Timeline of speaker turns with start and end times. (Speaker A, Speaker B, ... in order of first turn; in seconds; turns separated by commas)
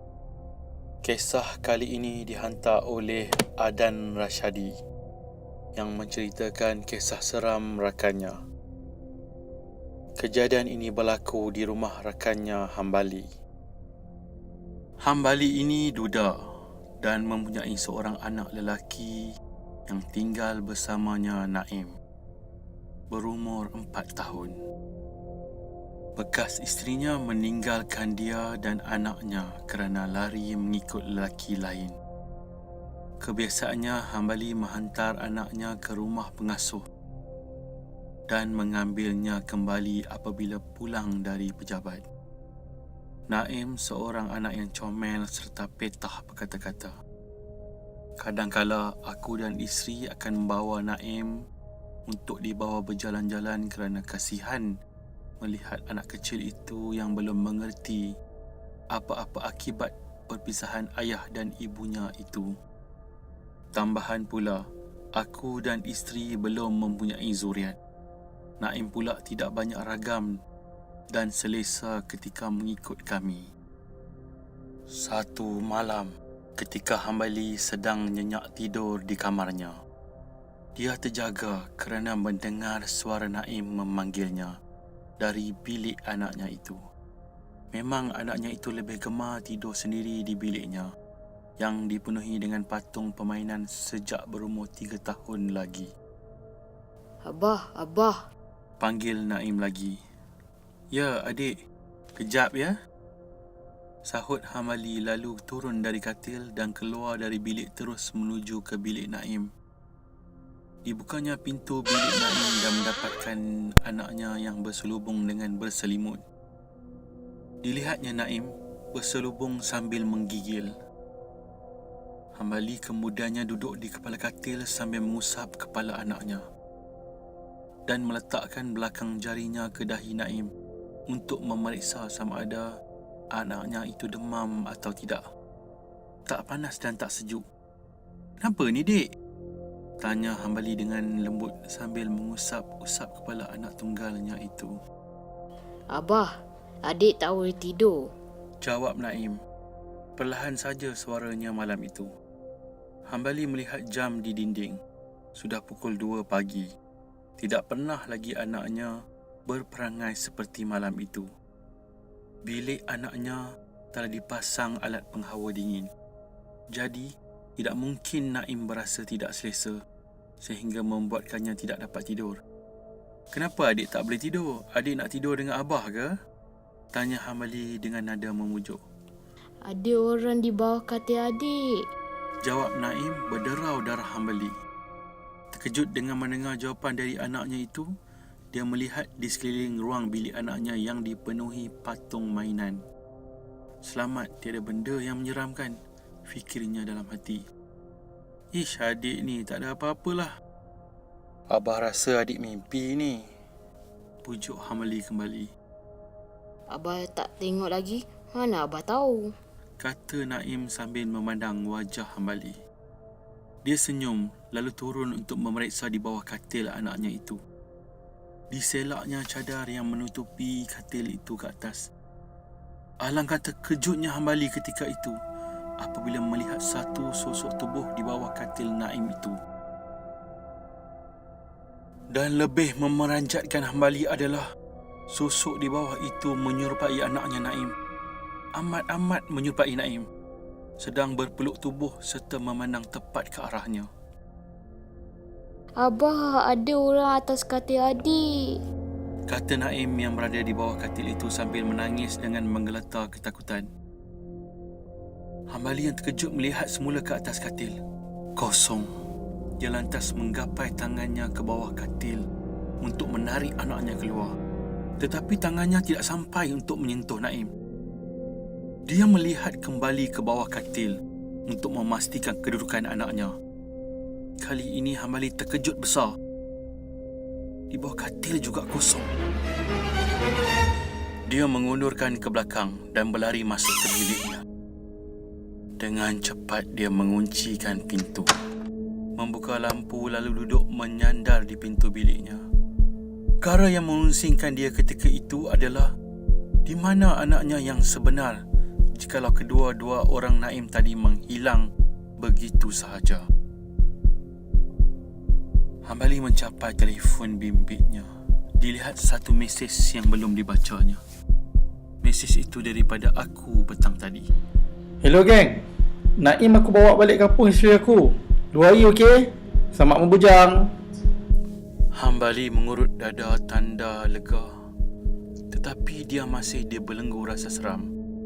Speaker A: 1.0-4.8, Speaker A: 5.8-8.4, Speaker A: 10.2-13.3, Speaker A: 15.0-16.4, Speaker A: 17.0-19.3, Speaker A: 19.9-21.9, Speaker A: 23.1-24.6, Speaker A: 26.2-31.9, Speaker A: 33.2-36.8, Speaker A: 38.3-42.0, Speaker A: 43.3-46.9, Speaker A: 48.2-51.4, Speaker A: 52.1-54.7, Speaker A: 55.4-58.1, Speaker A: 58.9-62.5, Speaker A: 63.7-64.6, Speaker A: 65.2-67.8, Speaker A: 68.6-70.3, Speaker A: 71.1-73.5, Speaker A: 74.9-79.8, Speaker A: 80.8-84.5, Speaker A: 85.2-86.8, Speaker A: 87.7-90.9, Speaker A: 91.6-95.9, Speaker B: 97.3-98.2, Speaker A: 98.8-100.0, Speaker A: 100.9-101.5, Speaker A: 102.2-102.8, Speaker A: 104.0-109.5, Speaker A: 110.9-116.2, Speaker A: 117.6-120.7, Speaker A: 122.4-126.4, Speaker A: 127.9-130.5, Speaker A: 131.1-132.7, Speaker A: 133.3-135.2, Speaker A: 136.3-137.4, Speaker A: 138.4-139.1, Speaker A: 140.0-144.8, Speaker B: 145.9-146.3, Speaker B: 146.9-148.0, Speaker A: 148.6-149.4, Speaker A: 150.2-152.1, Speaker A: 153.1-154.8, Speaker A: 155.4-156.7, Speaker A: 157.4-158.9, Speaker A: 159.5-161.3, Speaker A: 162.4-163.4, Speaker A: 163.9-165.9, Speaker A: 166.7-169.8, Speaker A: 170.4-172.4, Speaker A: 173.3-176.1, Speaker A: 176.9-178.8, Speaker B: 179.7-181.6, Speaker A: 182.4-184.5, Speaker A: 185.5-187.9, Speaker A: 188.5-192.8, Speaker A: 193.8-195.8, Speaker A: 196.3-197.4, Speaker A: 198.5-200.4, Speaker A: 201.5-203.2, Speaker A: 204.2-205.5, Speaker B: 206.7-209.3, Speaker A: 209.8-212.6, Speaker A: 213.6-217.4, Speaker A: 218.5-221.9, Speaker A: 223.0-225.2, Speaker A: 225.8-229.4, Speaker A: 232.1-234.5, Speaker A: 235.1-237.7, Speaker A: 238.6-240.1, Speaker A: 240.8-243.9, Speaker B: 245.8-248.2, Speaker A: 249.3-253.7, Speaker A: 255.5-257.7, Speaker A: 258.4-258.9, Speaker A: 259.6-262.2, Speaker A: 262.8-264.3, Speaker A: 265.0-267.5, Speaker A: 268.9-271.0, Speaker A: 271.5-273.3, Speaker A: 274.4-276.1, Speaker A: 277.7-279.1, Speaker A: 281.3-284.4, Speaker A: 285.8-288.3, Speaker A: 289.2-292.4, Speaker A: 293.4-295.9, Speaker A: 296.7-298.4, Speaker A: 299.0-301.7, Speaker A: 302.2-303.3, Speaker A: 305.9-308.1, Speaker A: 308.6-311.0, Speaker A: 312.0-314.3, Speaker C: 315.0-315.6, Speaker C: 316.2-320.7, Speaker A: 321.9-324.5, Speaker A: 325.5-327.9